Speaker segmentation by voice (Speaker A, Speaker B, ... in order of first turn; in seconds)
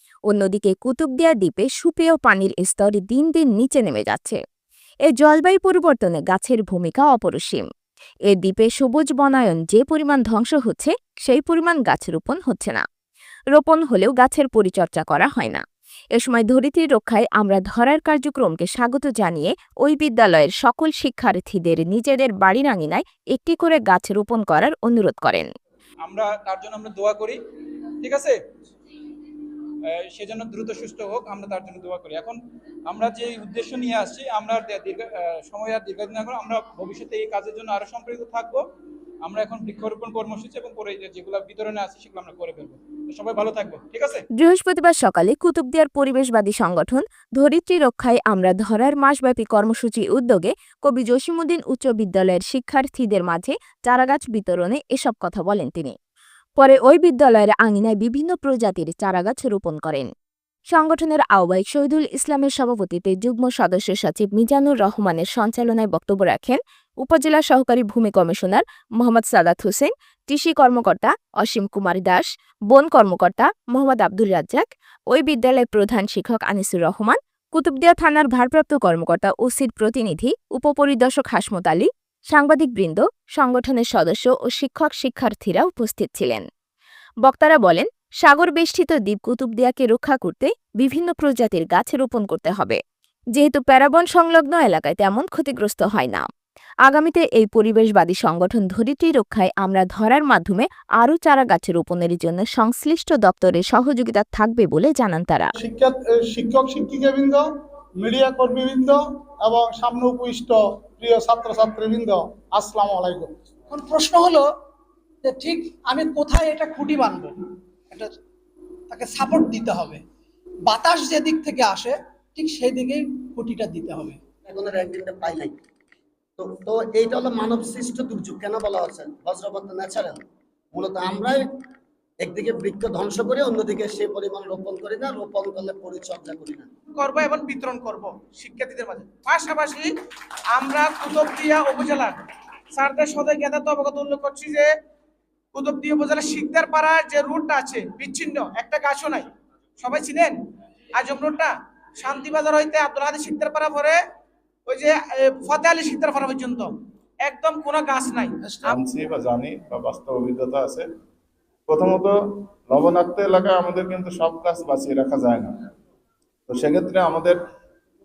Speaker A: 0.3-4.4, 5.1-7.7, 8.3-12.8, 13.5-15.6, 16.1-25.5, 44.3-56.0, 56.6-60.1, 60.7-86.4, 87.2-92.8, 93.3-96.3, 96.8-105.5
Speaker B: 26.0-27.4, 28.0-28.3, 29.8-38.6, 39.2-44.2
Speaker C: 105.6-107.4, 108.0-113.3
Speaker D: 113.7-114.5, 115.2-117.4, 118.9-120.0, 120.7-124.2
Speaker E: 124.5-125.5, 126.4-131.4, 132.2-136.7
Speaker F: 136.9-139.9, 140.5-142.2, 142.8-144.7, 145.5-149.3, 149.8-150.3, 151.0-154.0, 154.7-156.7, 157.2-158.8
Speaker G: 158.7-160.9, 161.7-165.6, 166.5-167.4